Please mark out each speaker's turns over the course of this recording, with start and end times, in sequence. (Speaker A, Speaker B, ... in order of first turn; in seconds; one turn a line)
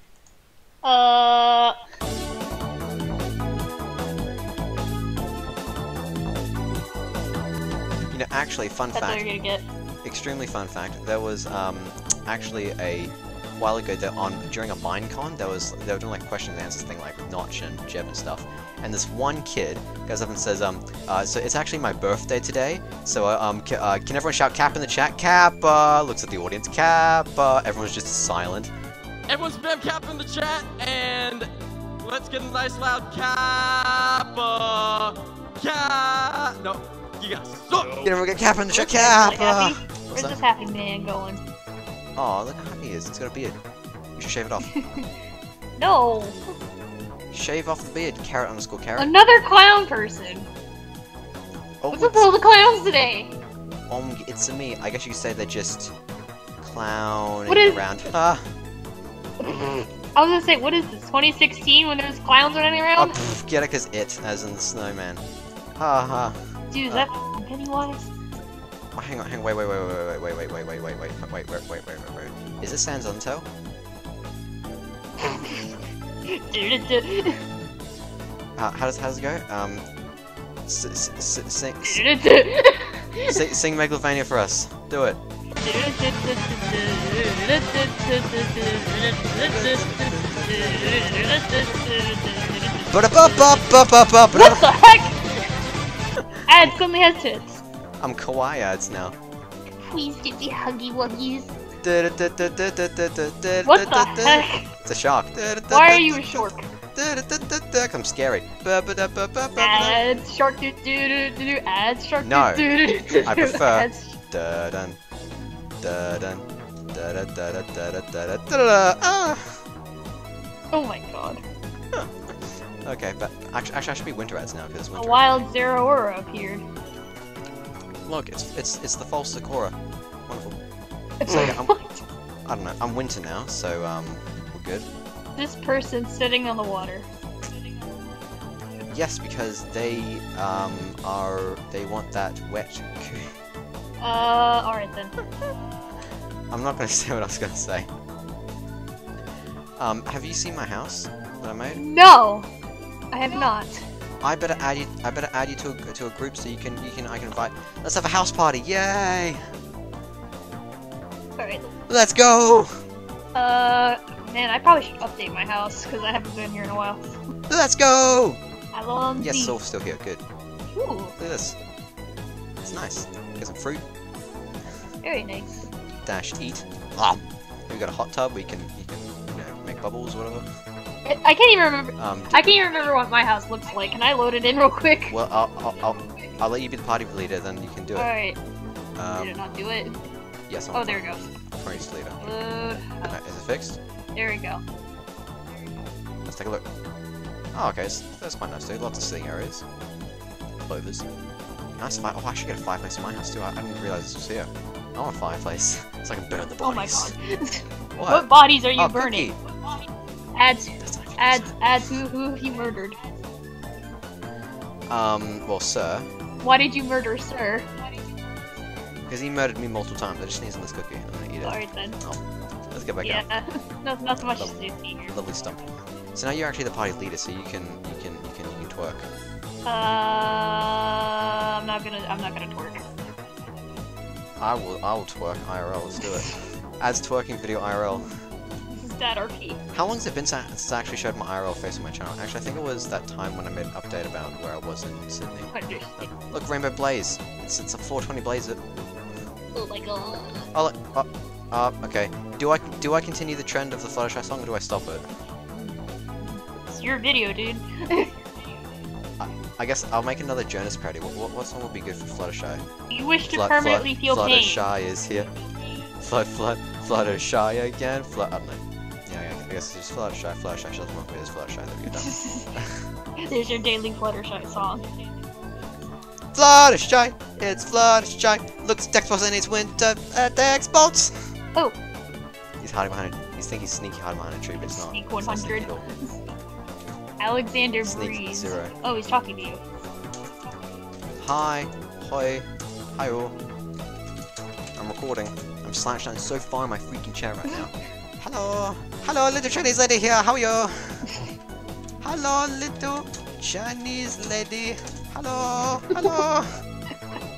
Speaker A: 0.8-1.8
Speaker B: 8.1-9.3
Speaker A: 8.9-9.7
Speaker B: 10.0-28.7
Speaker C: 29.3-31.5
Speaker C: 32.0-38.1
Speaker B: 38.0-40.4
Speaker A: 38.7-41.4
Speaker B: 42.1-43.6
Speaker B: 44.1-44.8
Speaker A: 44.7-45.1
Speaker A: 45.8-46.4
Speaker B: 47.3-49.1
Speaker A: 49.0-50.5
Speaker B: 51.8-52.3
Speaker A: 51.9-53.3
Speaker B: 53.9-55.9
Speaker B: 56.6-58.5
Speaker A: 57.5-57.9
Speaker A: 59.4-63.2
Speaker B: 63.0-65.2
Speaker B: 65.8-66.3
Speaker A: 66.7-68.1
Speaker B: 69.0-73.5
Speaker A: 75.2-75.7
Speaker A: 76.3-77.4
Speaker B: 78.5-79.8
Speaker B: 80.7-82.0
Speaker A: 81.8-83.4
Speaker B: 83.2-85.2
Speaker A: 85.6-93.6
Speaker B: 89.3-91.3
Speaker B: 92.9-94.7
Speaker A: 94.3-95.3
Speaker B: 96.2-96.8
Speaker A: 96.5-97.6
Speaker B: 98.0-99.2
Speaker A: 99.8-101.5
Speaker B: 101.8-110.0
Speaker A: 103.6-104.7
Speaker A: 105.7-106.7
Speaker A: 109.6-114.2
Speaker B: 112.2-115.0
Speaker B: 115.8-119.6
Speaker A: 120.7-121.4
Speaker B: 121.9-125.4
Speaker A: 125.0-126.6
Speaker B: 128.1-129.8
Speaker B: 130.3-130.6
Speaker A: 131.2-132.0
Speaker B: 131.2-131.7
Speaker B: 132.4-134.9
Speaker A: 135.3-137.1
Speaker B: 138.9-143.3
Speaker A: 144.0-145.1
Speaker B: 146.5-147.9
Speaker B: 149.8-151.8
Speaker A: 151.8-152.5
Speaker A: 153.1-153.8
Speaker B: 154.2-159.4
Speaker A: 161.4-161.7
Speaker B: 161.9-162.7
Speaker A: 163.3-167.2
Speaker B: 167.5-168.4
Speaker A: 168.7-169.6
Speaker B: 169.2-170.2
Speaker A: 170.7-171.1
Speaker B: 171.2-171.6
Speaker B: 172.6-173.8
Speaker A: 175.0-175.7
Speaker B: 176.0-180.5
Speaker A: 181.0-185.2
Speaker B: 182.0-182.6
Speaker B: 185.1-188.1
Speaker A: 187.9-188.4
Speaker B: 189.0-189.3
Speaker A: 189.1-190.0
Speaker B: 190.5-192.4
Speaker A: 190.7-191.2
Speaker A: 192.2-193.1
Speaker B: 193.0-193.8
Speaker A: 194.1-194.6
Speaker B: 196.2-196.6
Speaker B: 197.5-199.6
Speaker B: 200.7-201.1
Speaker B: 201.8-207.1
Speaker A: 206.6-209.4
Speaker B: 207.9-209.3
Speaker A: 210.3-213.0
Speaker B: 210.8-211.9
Speaker B: 214.9-216.1
Speaker A: 216.4-217.7
Speaker B: 219.1-223.2
Speaker A: 221.4-222.0
Speaker A: 223.0-225.1
Speaker B: 225.1-229.1
Speaker A: 229.7-232.8
Speaker B: 234.4-238.2
Speaker A: 238.7-239.6
Speaker B: 239.7-248.6
Speaker A: 245.5-246.1
Speaker A: 249.5-250.5
Speaker B: 250.5-255.0
Speaker A: 255.5-258.1
Speaker B: 259.2-262.6
Speaker A: 262.9-264.7
Speaker B: 263.3-265.3
Speaker B: 266.0-272.8
Speaker A: 271.9-272.5
Speaker A: 273.2-274.9
Speaker B: 276.3-281.3
Speaker B: 282.6-285.8
Speaker A: 284.6-286.2
Speaker A: 287.2-289.6
Speaker B: 287.8-288.7
Speaker B: 291.2-293.4
Speaker B: 294.7-301.2
Speaker B: 302.0-306.6